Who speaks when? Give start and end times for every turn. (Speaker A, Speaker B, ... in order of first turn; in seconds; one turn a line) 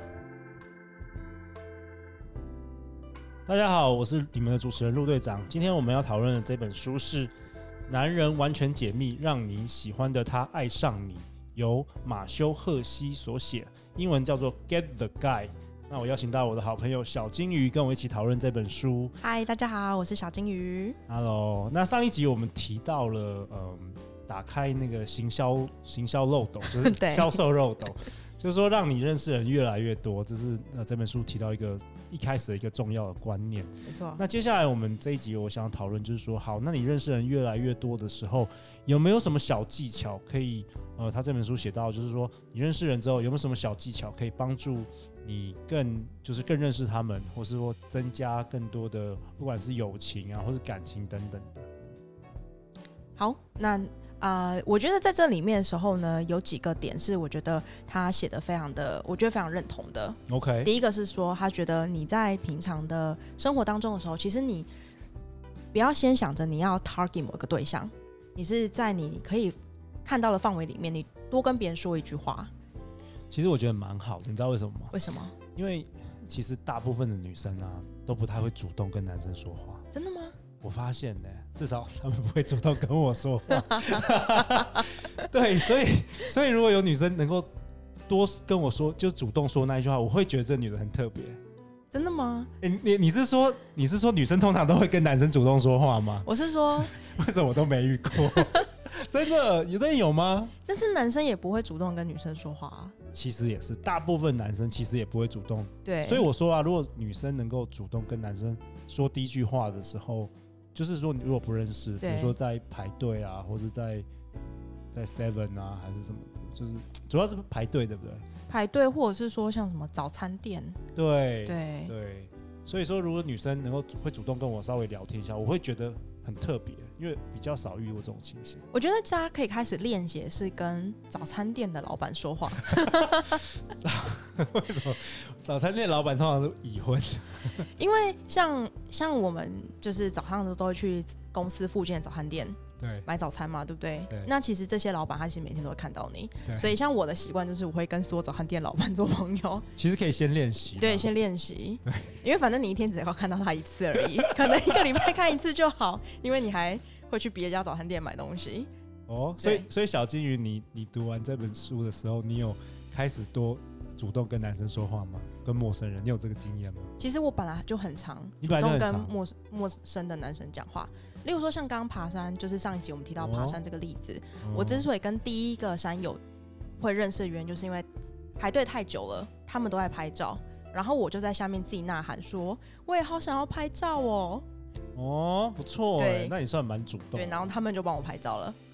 Speaker A: 3.5-7.3
Speaker A: 7.9-19.1
Speaker B: 19.2-21.0
Speaker A: 21.1-51.7
Speaker B: 26.7-27.4
Speaker B: 33.9-34.2
Speaker B: 53.1-64.7
Speaker A: 60.3-60.7
Speaker B: 65.7-72.5
Speaker A: 73.3-75.0
Speaker B: 74.9-75.3
Speaker A: 75.5-79.8
Speaker B: 79.9-80.3
Speaker A: 80.6-87.5
Speaker B: 83.6-84.6
Speaker A: 88.1-91.4
Speaker B: 91.9-92.5
Speaker A: 92.6-100.5
Speaker B: 96.2-97.0
Speaker B: 98.1-98.7
Speaker B: 100.7-102.9
Speaker A: 103.1-114.0
Speaker B: 105.8-106.3
Speaker B: 112.0-112.4
Speaker A: 114.9-118.2
Speaker B: 118.5-120.8
Speaker A: 120.9-128.7
Speaker B: 121.4-121.9
Speaker B: 128.7-133.4
Speaker A: 132.7-137.7
Speaker B: 137.8-149.7
Speaker A: 142.8-143.1
Speaker A: 146.4-146.7
Speaker A: 149.8-151.1
Speaker B: 150.8-158.7
Speaker A: 151.8-152.2
Speaker A: 154.0-155.1
Speaker A: 159.1-166.9
Speaker B: 159.4-159.7
Speaker B: 167.0-176.2
Speaker A: 168.4-169.1
Speaker A: 173.2-173.6
Speaker A: 174.4-174.9
Speaker B: 176.8-177.9
Speaker B: 178.4-184.4
Speaker A: 184.9-187.5
Speaker B: 186.0-186.3
Speaker B: 187.1-188.6